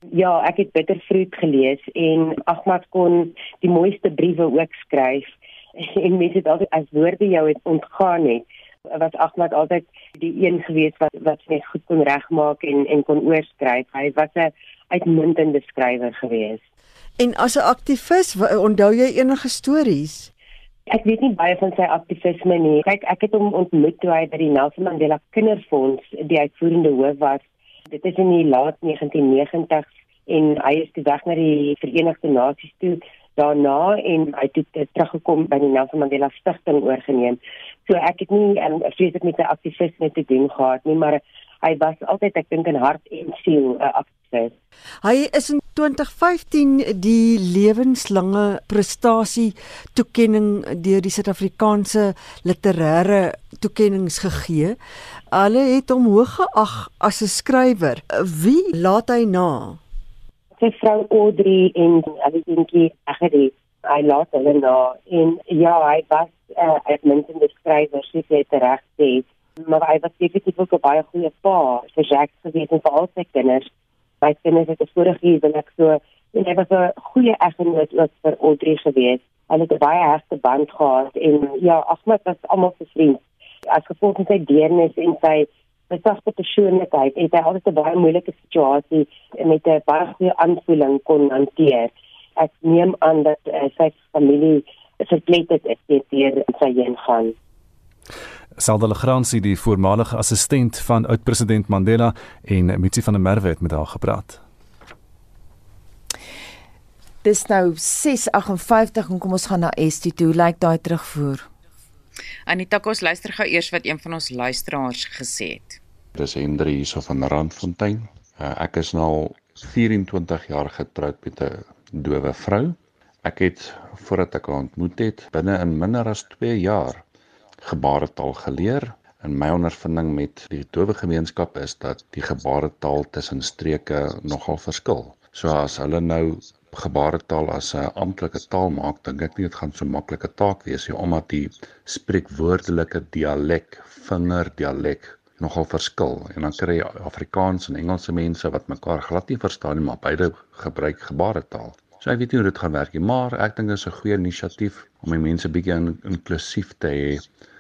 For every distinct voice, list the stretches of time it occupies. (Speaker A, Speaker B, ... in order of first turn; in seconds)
Speaker A: 0.1-16.6, 20.9-44.5, 60.6-73.7, 74.2-97.3
Speaker B: 17.2-20.3, 45.0-54.8, 55.3-59.8
Speaker C: 98.6-104.4
Speaker D: 107.2-111.5
Speaker E: 112.5-115.8
Speaker F: 116.1-127.0, 127.6-157.2